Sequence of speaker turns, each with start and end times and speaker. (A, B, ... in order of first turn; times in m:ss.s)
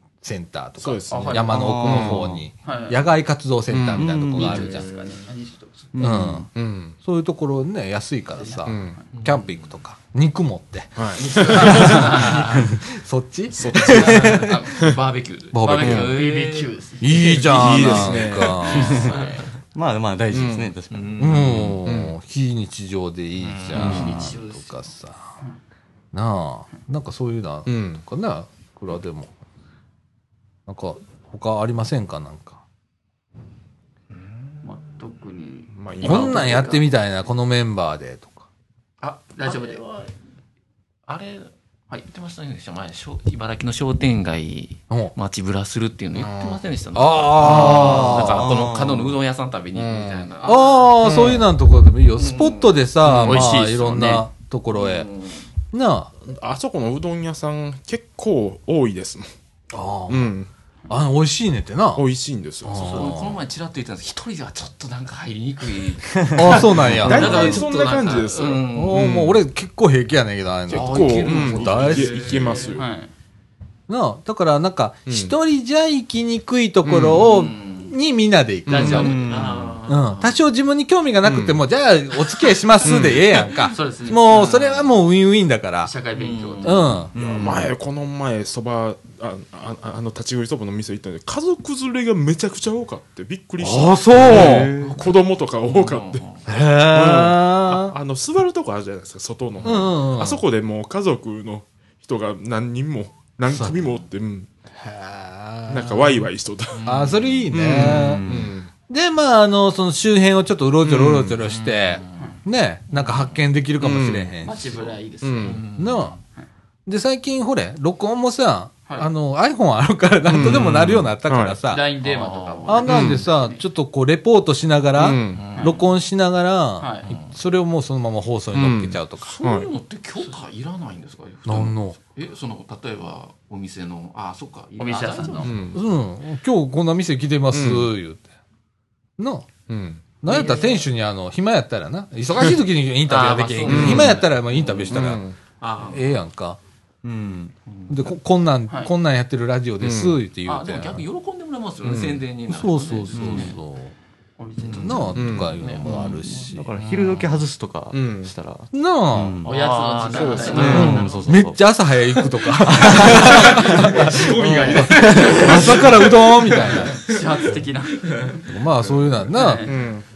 0:00.2-0:04.9 A
0:00.8-0:02.4 B
0:01.1-0:01.8 C
0:01.5-0:02.4 D
0:02.6-0:03.0 C
0:03.7-0:04.1 B
0:03.9-0:04.7 D
0:04.3-0:05.9 C
0:04.6-0:05.2 E
0:05.9-0:06.5 D
0:06.0-0:06.5 A
0:06.6-0:07.0 B
0:07.0-0:14.6 A
0:08.4-0:09.0 C
0:08.7-0:09.0 B
0:09.1-0:09.6 E
0:11.0-0:12.0 B
0:11.2-0:12.5 C
0:11.4-0:12.6 E
0:13.5-0:15.0 B
0:13.8-0:14.9 C
0:14.4-0:16.7 E
0:15.5-0:16.2 A
0:15.6-0:19.5 C
0:15.8-0:16.1 B
0:17.0-0:19.1 A
0:17.4-0:19.1 B
0:17.9-0:19.5 E
0:19.7-0:21.6 D
0:20.3-0:20.7 B
0:20.9-0:21.8 E
0:21.2-0:25.3 A
0:21.8-0:22.2 B
0:23.4-0:24.1 E
0:23.7-0:24.8 C
0:23.8-0:24.1 B
0:26.1-0:29.3 A
0:27.7-0:28.0 B
0:30.7-0:32.6 A
0:34.1-0:34.6 E
0:34.6-0:36.8 C
0:35.7-0:36.6 B
0:36.0-0:38.5 A
0:39.0-0:40.1 E
0:39.3-0:39.8 C
0:41.1-0:41.5 E
0:42.1-0:51.2 E
0:46.2-0:46.6 B
0:46.9-0:48.5 A
0:47.4-0:49.2 D
0:49.8-0:50.3 B
0:50.4-0:50.8 C
0:50.4-0:55.1 A
0:51.0-0:51.4 B
0:52.2-0:52.7 E
0:53.0-0:53.5 B
0:53.2-0:54.3 C
0:54.7-0:55.5 E
0:55.7-0:56.1 A
0:56.2-0:59.3 B
0:59.7-1:00.4 A
1:00.1-1:00.5 B
1:00.9-1:02.1 A
1:02.0-1:03.1 B
1:02.6-1:03.4 A
1:02.7-1:09.2 E
1:06.4-1:07.6 A
1:06.9-1:09.4 B
1:08.7-1:12.4 A
1:10.7-1:12.8 E
1:10.7-1:12.9 B
1:12.6-1:13.1 C
1:13.9-1:19.2 A
1:15.1-1:15.4 B
1:16.8-1:17.2 B
1:17.0-1:17.9 E
1:18.7-1:19.6 C
1:18.7-1:19.1 B
1:18.8-1:19.8 D
1:18.9-1:20.4 E
1:19.9-1:26.0 A
1:21.2-1:21.6 B
1:22.8-1:23.5 B
1:23.6-1:24.9 C
1:25.8-1:27.1 C
1:26.1-1:27.0 E
1:26.6-1:27.1 A
1:27.2-1:27.7 D
1:27.2-1:36.2 B
1:33.6-1:34.7 A
1:34.2-1:35.0 D
1:34.8-1:36.5 E
1:36.5-1:38.0 A
1:36.9-1:44.5 B
1:39.6-1:40.4 A
1:43.5-1:43.8 A
1:44.8-1:46.3 A
1:45.7-1:46.8 B
1:46.7-1:47.5 E
1:46.9-1:48.3 A
1:47.5-1:48.5 D
1:47.7-1:48.7 B
1:48.9-1:54.8 A
1:50.8-1:51.4 B
1:51.4-1:52.4 E
1:53.0-1:53.3 E
1:53.8-1:54.3 B
1:54.4-1:55.8 C
1:55.2-1:55.6 B
1:55.4-1:56.2 E
1:55.8-1:56.2 A
1:56.9-2:01.9 A
2:00.3-2:01.6 B
2:01.7-2:03.6 C
2:02.0-2:02.9 E
2:02.7-2:09.4 A
2:02.9-2:03.3 B
2:05.0-2:05.5 B
2:05.3-2:05.8 E
2:05.6-2:05.9 C
2:06.8-2:07.2 C
2:07.1-2:07.4 E
2:08.5-2:09.7 B
2:09.2-2:15.7 E
2:11.5-2:12.0 A
2:14.8-2:15.6 C
2:15.4-2:15.8 B
2:15.7-2:18.2 A
2:17.5-2:17.9 B
2:19.2-2:19.5 A
2:19.7-2:20.0 B
2:20.2-2:25.2 A
2:20.3-2:20.9 C
2:23.1-2:24.2 C
2:23.1-2:25.0 E
2:23.7-2:24.2 B
2:24.9-2:25.4 B
2:25.6-2:26.1 E
2:25.8-2:26.6 A
2:27.0-2:27.5 D
2:27.7-2:28.0 E
2:27.9-2:31.0 A
2:29.8-2:30.2 B
2:30.4-2:33.6 E
2:31.8-2:32.2 B
2:32.5-2:33.9 A
2:33.1-2:33.5 D
2:34.4-2:35.2 C
2:34.6-2:37.3 E
2:34.8-2:36.7 A
2:35.2-2:35.6 B
2:35.8-2:39.5 D
2:37.9-2:38.3 B
2:38.7-2:39.4 A
2:39.4-2:41.4 E
2:39.5-2:41.1 C
2:40.1-2:41.0 B
2:40.5-2:41.6 D
2:40.6-2:47.0 A
2:42.6-2:44.1 D
2:42.9-2:47.5 E
2:43.3-2:48.4 C
2:44.7-2:45.8 D
2:48.0-2:48.5 E
2:48.4-2:49.8 A
2:49.3-2:49.8 C
2:49.6-2:50.0 B